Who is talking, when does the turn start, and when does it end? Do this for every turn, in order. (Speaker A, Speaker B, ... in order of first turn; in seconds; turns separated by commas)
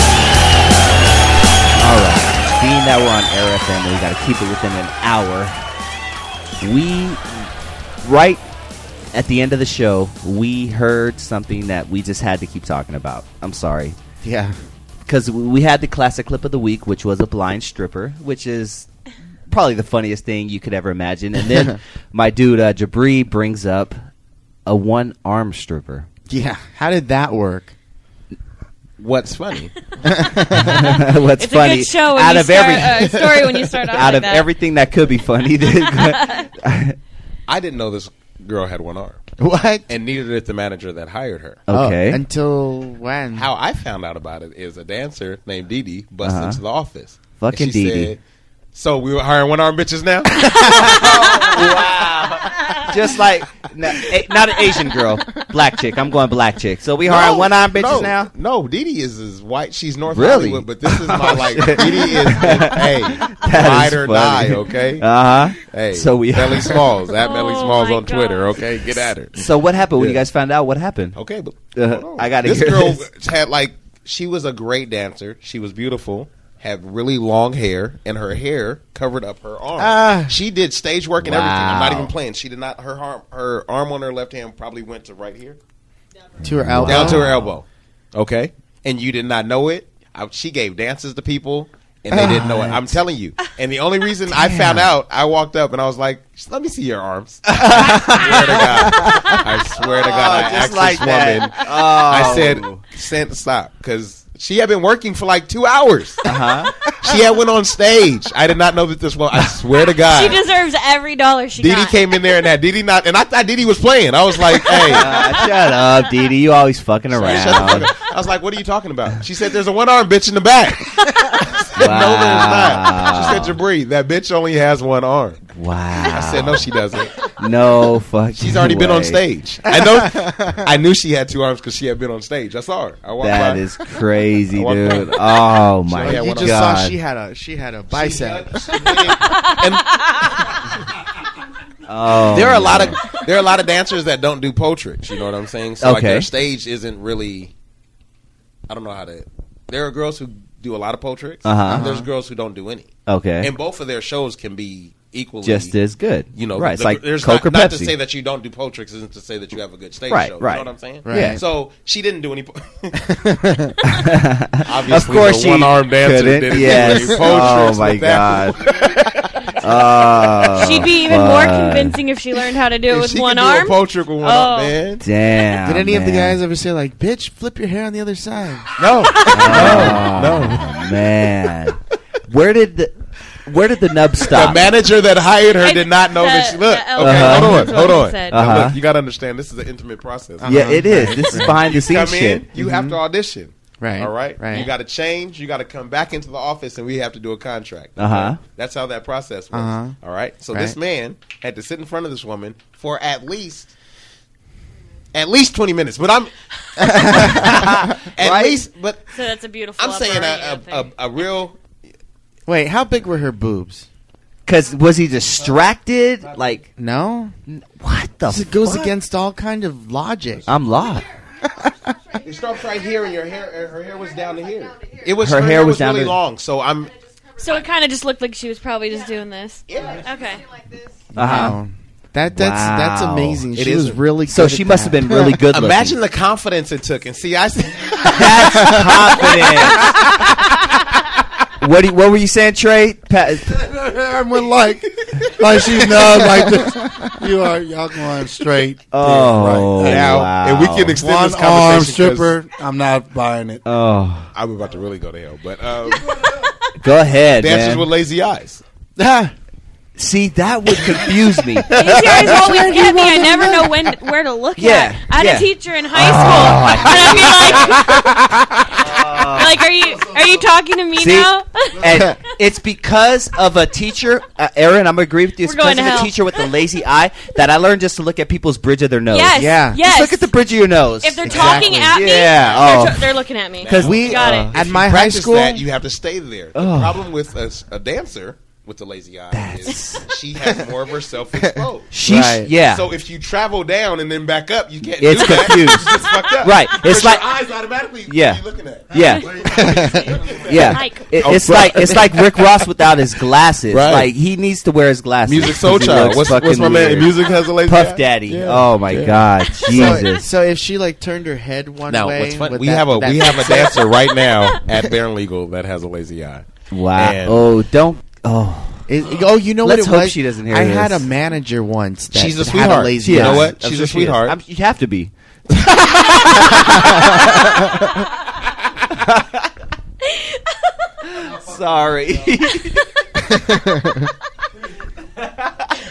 Speaker A: 1.8-5.6, Speaker A: 6.6-7.5, Speaker A: 8.0-8.4, Speaker A: 9.1-14.0, Speaker B: 14.2-14.6, Speaker A: 15.1-18.9, Speaker A: 19.5-23.9, Speaker A: 24.7-26.1, Speaker B: 26.3-27.8, Speaker C: 29.0-29.7, Speaker B: 30.0-30.7, Speaker A: 30.6-33.0, Speaker D: 31.4-34.5, Speaker B: 33.0-33.6, Speaker A: 33.9-37.0, Speaker D: 36.1-36.5, Speaker C: 37.5-39.2, Speaker B: 39.4-39.9, Speaker C: 39.9-41.6, Speaker A: 41.7-42.2, Speaker B: 41.7-43.5, Speaker C: 43.4-48.2, Speaker A: 46.2-46.6, Speaker A: 47.4-48.1, Speaker C: 48.7-50.3, Speaker A: 50.5-58.3, Speaker B: 50.6-51.8, Speaker C: 57.1-65.0, Speaker A: 60.1-66.9, Speaker C: 65.7-70.2, Speaker D: 67.2-69.1, Speaker A: 69.3-71.2, Speaker C: 71.1-85.6, Speaker A: 71.7-73.1, Speaker B: 79.8-80.4, Speaker A: 81.2-82.1, Speaker B: 86.4-87.4, Speaker A: 86.6-87.5, Speaker C: 86.8-101.5, Speaker B: 92.1-92.7, Speaker A: 92.2-92.8, Speaker B: 94.3-94.9, Speaker A: 97.5-102.8, Speaker B: 98.8-99.4, Speaker C: 102.1-106.2, Speaker A: 106.2-106.7, Speaker C: 107.0-110.4, Speaker D: 110.0-112.4, Speaker C: 111.6-115.1, Speaker D: 114.5-115.4, Speaker A: 114.9-117.9, Speaker C: 117.1-121.0, Speaker A: 121.8-123.6, Speaker C: 121.8-125.4, Speaker A: 125.5-126.7, Speaker C: 126.1-127.2, Speaker A: 127.2-129.2, Speaker C: 128.4-133.7, Speaker B: 129.7-130.6, Speaker A: 133.2-137.0, Speaker C: 134.6-135.2, Speaker B: 135.9-139.5, Speaker C: 135.9-136.6, Speaker C: 137.9-139.9, Speaker A: 141.9-143.0, Speaker C: 142.3-147.5, Speaker A: 145.8-146.3, Speaker C: 148.7-152.9, Speaker A: 151.4-151.9, Speaker B: 151.7-152.1, Speaker A: 153.1-153.5, Speaker C: 153.4-155.7, Speaker A: 155.4-157.9, Speaker C: 156.3-163.0, Speaker A: 160.1-161.4, Speaker B: 161.0-161.4, Speaker B: 163.1-163.7, Speaker A: 163.8-168.6, Speaker C: 164.7-169.2, Speaker B: 166.7-167.7, Speaker A: 169.6-172.0, Speaker D: 170.6-174.8, Speaker C: 172.9-175.0, Speaker A: 175.0-176.4, Speaker B: 175.6-180.1, Speaker C: 178.8-180.7, Speaker D: 179.2-179.9, Speaker A: 179.3-182.9, Speaker A: 183.4-184.7, Speaker C: 184.3-190.6, Speaker D: 185.6-188.4, Speaker A: 187.0-187.8, Speaker A: 188.3-188.8, Speaker B: 190.4-191.7, Speaker A: 190.5-192.6, Speaker C: 191.6-203.7, Speaker B: 192.5-193.0, Speaker B: 193.8-194.7, Speaker A: 198.0-198.4, Speaker B: 199.5-200.0, Speaker B: 200.5-200.8, Speaker C: 205.1-206.3, Speaker B: 206.8-207.5, Speaker C: 207.1-209.1, Speaker A: 207.4-208.6, Speaker D: 209.1-210.9, Speaker C: 209.8-211.6, Speaker B: 212.5-213.9, Speaker A: 214.5-216.7, Speaker B: 216.8-217.3, Speaker A: 217.5-218.9, Speaker B: 218.3-220.5, Speaker A: 220.5-221.1, Speaker C: 222.2-227.0, Speaker A: 225.2-226.2, Speaker D: 227.4-230.5, Speaker C: 229.7-230.0, Speaker B: 231.1-235.4, Speaker A: 231.2-231.6, Speaker A: 232.3-233.4, Speaker C: 233.5-234.1, Speaker A: 234.3-236.0, Speaker C: 235.5-238.3, Speaker A: 238.1-239.9, Speaker B: 238.4-239.4, Speaker A: 241.6-243.6, Speaker E: 243.5-250.2, Speaker B: 244.2-244.8, Speaker B: 246.0-247.0, Speaker A: 248.9-251.0, Speaker C: 249.9-252.3, Speaker E: 251.0-253.6, Speaker A: 253.6-254.3, Speaker C: 254.3-256.0, Speaker A: 256.8-257.9, Speaker C: 257.4-258.6, Speaker B: 259.0-259.3, Speaker A: 260.0-262.4, Speaker D: 261.7-268.0, Speaker B: 262.0-263.7, Speaker A: 264.6-268.0, Speaker A: 268.7-269.6, Speaker D: 269.0-272.1, Speaker A: 270.9-283.0, Speaker D: 275.4-276.2, Speaker D: 279.1-280.3, Speaker B: 279.4-279.8, Speaker D: 281.0-284.5, Speaker B: 281.2-282.2, Speaker C: 282.4-282.8, Speaker A: 283.6-284.7, Speaker B: 283.8-285.6, Speaker C: 284.7-291.9, Speaker A: 286.6-287.1, Speaker A: 289.3-290.1, Speaker B: 290.4-290.8, Speaker B: 291.4-292.6, Speaker A: 291.9-292.9, Speaker C: 292.6-299.8, Speaker A: 295.0-297.3, Speaker A: 298.1-299.4, Speaker D: 298.9-299.2, Speaker B: 299.4-300.2, Speaker C: 300.3-300.6, Speaker A: 300.3-310.2, Speaker D: 300.5-301.2, Speaker C: 301.2-301.7, Speaker C: 303.7-304.1, Speaker C: 305.3-309.1, Speaker D: 309.6-310.1, Speaker B: 309.7-314.1, Speaker C: 311.9-317.4, Speaker A: 316.7-318.8, Speaker B: 318.9-324.2, Speaker A: 319.6-321.1, Speaker C: 322.1-324.3, Speaker A: 323.0-325.1, Speaker A: 325.8-327.8, Speaker A: 328.9-329.4, Speaker A: 331.0-333.4, Speaker A: 335.2-335.7